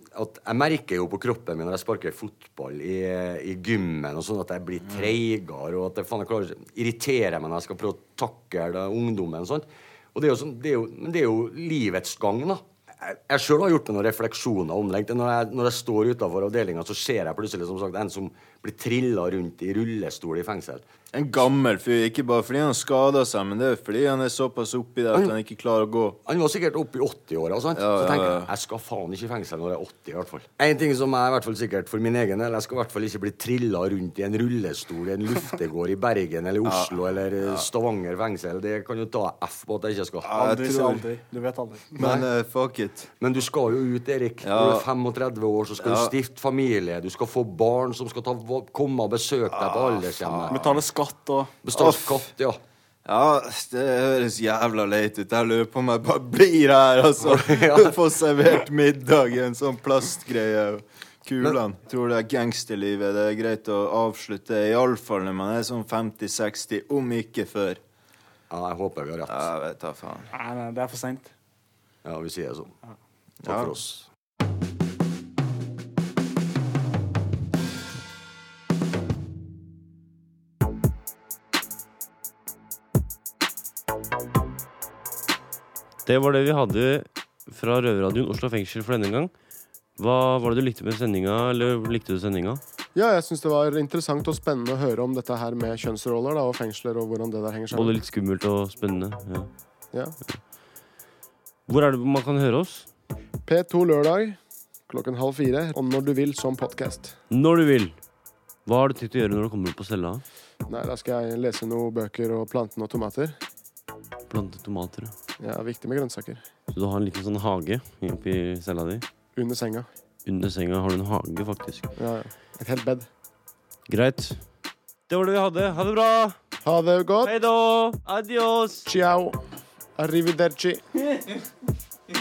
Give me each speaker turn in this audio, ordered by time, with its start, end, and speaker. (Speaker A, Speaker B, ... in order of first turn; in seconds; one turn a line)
Speaker A: 0.1-20.8
Speaker B: 21.1-26.2
Speaker A: 26.2-40.4
Speaker B: 27.7-28.5
Speaker B: 36.6-37.7
Speaker B: 40.2-41.1
Speaker C: 40.2-42.0
Speaker B: 42.0-43.1
Speaker A: 42.0-42.2
Speaker A: 43.2-50.8
Speaker B: 44.4-44.9
Speaker B: 45.8-46.1
Speaker B: 49.5-50.7
Speaker C: 50.5-51.5
Speaker A: 51.6-52.6
Speaker B: 51.7-52.3
Speaker B: 53.0-67.8
Speaker A: 57.3-57.9
Speaker A: 68.5-69.5
Speaker B: 69.3-70.3
Speaker C: 70.3-71.3
Speaker A: 72.0-72.7
Speaker B: 73.4-73.8
Speaker A: 73.5-74.0
Speaker D: 86.0-89.3
Speaker D: 90.0-92.6
Speaker E: 92.9-98.0
Speaker D: 97.7-99.5
Speaker D: 101.7-102.9
Speaker E: 103.5-107.1
Speaker D: 107.3-108.0
Speaker D: 108.7-110.2
Speaker E: 110.7-113.4
Speaker D: 114.3-115.1
Speaker E: 115.4-116.5
Speaker D: 116.7-119.0
Speaker E: 119.3-119.9
Speaker D: 120.2-121.9
Speaker E: 122.0-123.1
Speaker D: 123.9-124.5
Speaker D: 125.1-126.4
Speaker E: 126.6-127.3
Speaker D: 127.2-128.9
Speaker E: 128.8-129.4
Speaker E: 129.9-130.8